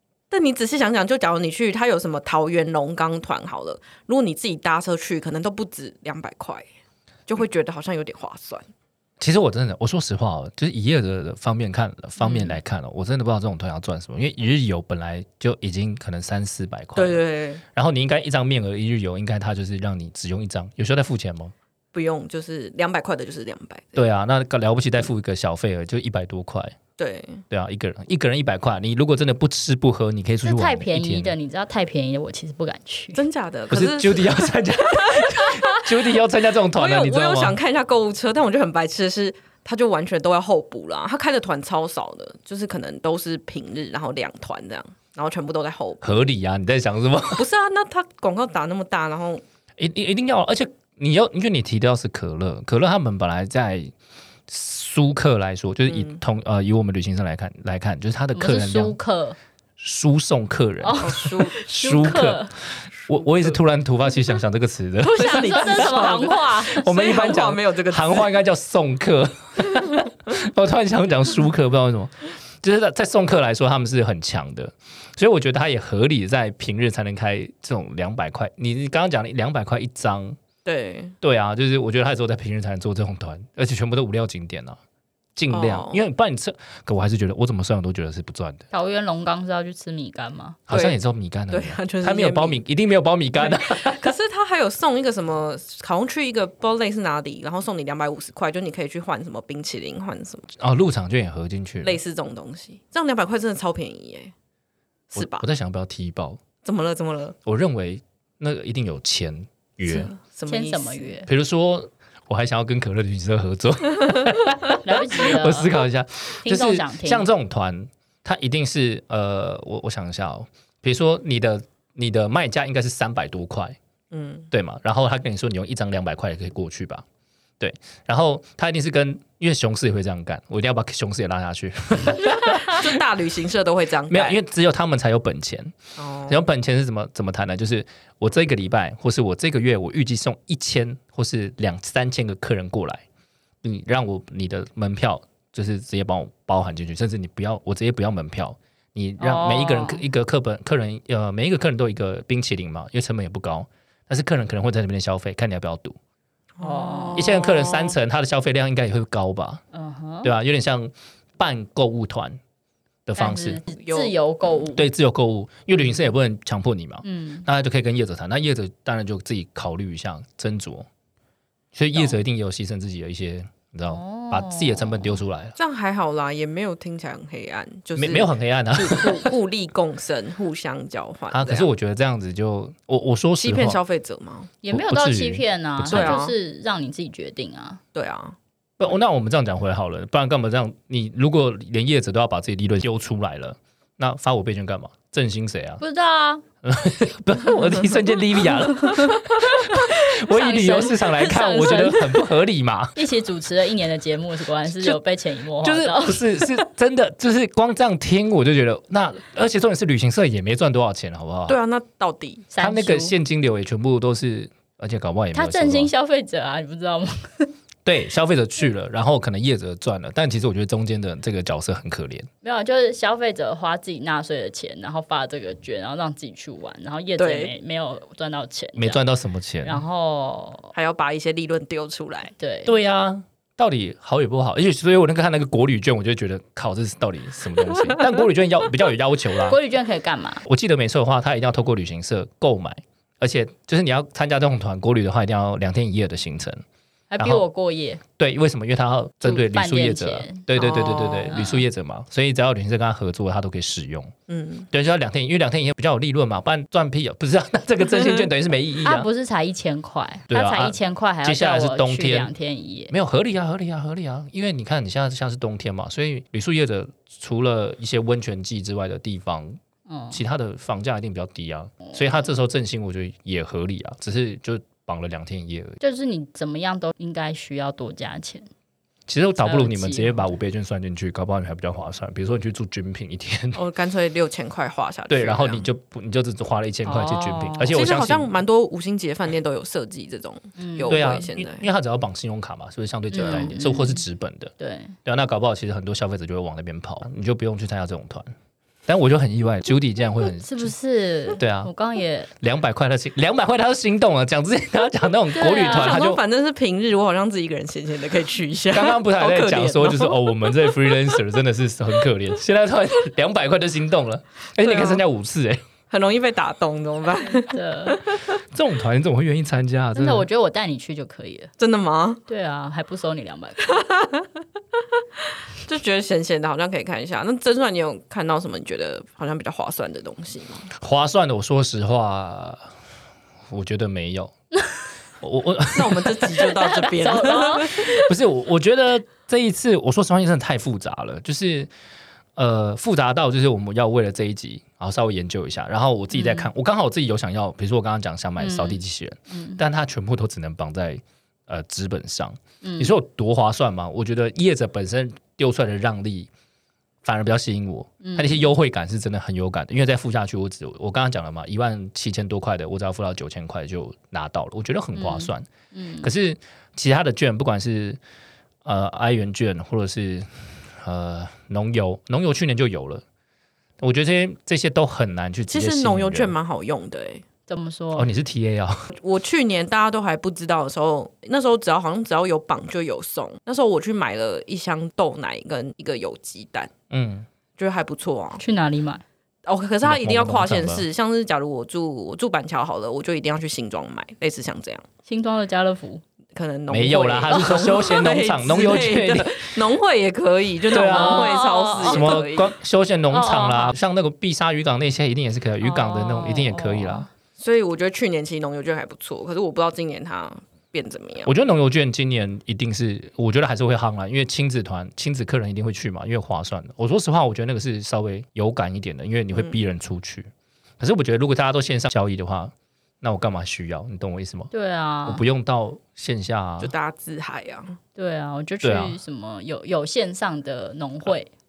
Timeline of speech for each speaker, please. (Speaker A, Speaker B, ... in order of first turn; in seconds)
Speaker A: 0.3-6.7, 7.3-8.7, 12.2-12.5, 16.9-17.6, 21.9-24.0, 27.0-27.4, 33.1-36.1, 36.7-46.3, 47.3-49.4, 55.9-56.2, 61.0-61.6, 63.1-63.6, 65.1-68.3, 80.6-81.2, 85.5-86.0, 90.7-91.0, 91.5-92.6, 93.4-100.5, 101.8-104.3, 105.1-105.4, 106.6-107.3, 109.8-111.1, 124.1-124.5, 132.4-134.4, 136.0-136.4, 156.6-157.9, 163.7-164.1, 175.6-181.7, 183.4-184.5, 185.9-186.3, 187.9-188.3, 211.5-212.5, 227.2-227.5, 230.7-232.3, 250.6-251.3, 254.3-254.7, 283.5-285.7, 287.7-291.7, 305.6-310.3, 314.6-315.0, 315.9-318.4, 321.6-322.2, 323.6-324.3, 325.5-330.7, 335.7-338.0, 375.5-377.2, 378.9-386.7, 387.6-388.4, 389.4-394.8, 396.3-402.5, 407.4-411.3, 426.6-427.8
Speaker B: 9.2-17.2, 17.7-21.5, 23.9-26.8, 27.5-31.3, 33.7-37.5, 46.0-47.5, 49.8-53.9, 54.5-59.0, 59.8-80.4, 81.2-84.8, 85.3-88.6, 90.7-94.1, 100.6-102.0, 105.2-106.4, 107.4-110.1, 111.3-123.8, 124.5-127.0, 127.6-133.0, 134.1-143.0, 143.6-156.0, 157.2-159.6, 160.2-162.4, 163.1-163.6, 164.7-170.9, 171.7-175.6, 177.9-179.3, 181.3-183.8, 184.7-186.2, 188.8-195.8, 196.6-203.0, 205.6-211.6, 212.6-215.9, 217.8-222.3, 228.8-229.8, 232.7-239.6, 240.4-246.6, 248.2-254.1, 254.7-259.1, 260.3-262.3, 262.9-269.6, 270.1-275.8, 279.1-283.6, 285.1-288.3, 290.9-294.5, 295.0-298.3, 298.9-300.7, 301.4-301.7, 302.4-306.2, 308.7-315.6, 318.5-320.3, 330.7-332.7, 333.5-334.3, 335.2-336.5, 337.9-341.7, 342.4-356.3, 357.0-365.5, 366.0-368.0, 368.6-373.0, 373.8-376.3, 377.9-378.8, 386.9-387.3, 389.8-390.9, 396.7-399.5, 400.7-407.1, 411.2-424.5, 425.0-426.7, 428.6-429.0
Speaker C: 30.4-33.2, 58.3-59.4, 60.8-62.5, 65.0-66.9, 88.7-90.6, 110.5-111.3, 114.8-115.7, 116.4-117.3, 149.2-150.0, 156.6-157.2, 159.7-160.3, 163.2-164.8, 167.0-167.5, 173.9-175.2, 184.6-187.8, 195.8-196.4, 199.4-202.3, 202.9-206.7, 212.5-213.1, 215.3-217.5, 222.4-229.0, 229.6-230.7, 232.4-232.7, 239.4-240.4, 247.1-248.0, 249.2-251.6, 258.8-262.9, 269.9-270.2, 275.8-278.5, 279.4-280.3, 286.8-287.7, 290.6-291.0, 293.1-294.0, 294.6-294.9, 300.2-302.3, 305.3-306.1, 317.2-318.0, 319.9-321.5, 322.3-323.8, 336.6-338.1, 346.1-346.5, 348.4-349.6, 352.6-352.9, 358.0-358.5, 364.9-366.1, 377.5-378.1, 388.4-389.0, 395.1-396.0, 400.7-402.2, 403.1-403.7, 405.6-407.1, 424.5-425.2, 427.9-431.3